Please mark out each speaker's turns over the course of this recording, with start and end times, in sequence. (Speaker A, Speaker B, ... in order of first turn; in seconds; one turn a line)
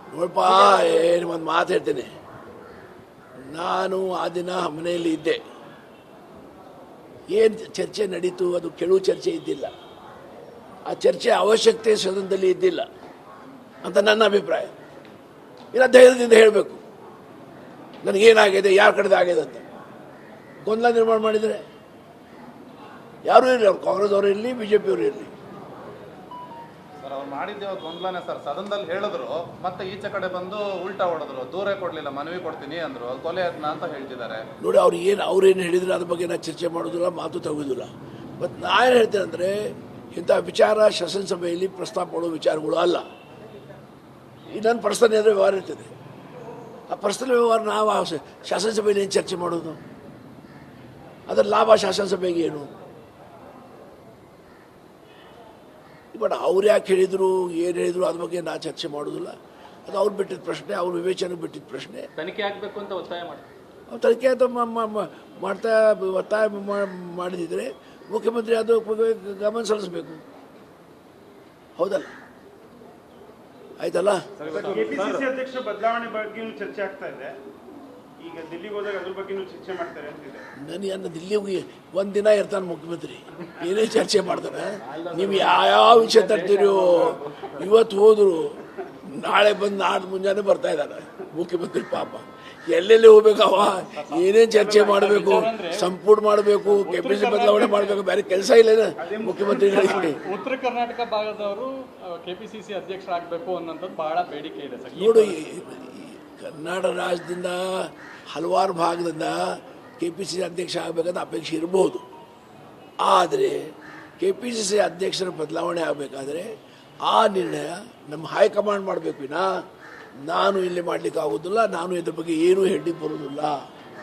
Speaker A: 0.1-2.1
Speaker B: 0.5-1.1
Speaker A: 3.5-5.4
Speaker A: 7.3-9.7
Speaker A: 10.9-12.8
Speaker A: 13.8-14.7
Speaker A: 15.7-16.8
Speaker A: 18.0-19.6
Speaker A: 20.6-21.6
Speaker A: 23.2-25.3
Speaker C: 27.0-34.4
Speaker A: 34.6-39.6
Speaker A: 40.1-43.0
Speaker A: 44.5-45.9
Speaker A: 46.9-49.8
Speaker A: 51.3-52.7
Speaker A: 56.1-59.3
Speaker A: 59.9-62.0
Speaker B: 62.2-63.5
Speaker A: 63.9-70.2
Speaker A: 71.8-72.1
Speaker A: 73.8-74.7
Speaker D: 74.4-75.2
Speaker E: 74.5-77.3
Speaker E: 78.2-80.4
Speaker A: 80.6-88.5
Speaker B: 84.3-87.5
Speaker A: 89.0-100.1
Speaker D: 94.0-95.9
Speaker E: 94.6-94.9
Speaker D: 96.8-98.0
Speaker E: 99.0-100.2
Speaker D: 99.6-105.4
Speaker A: 104.9-109.4
Speaker A: 110.0-112.0
Speaker A: 113.0-113.6
Speaker A: 114.2-116.5
Speaker A: 117.0-119.5
Speaker A: 120.2-123.5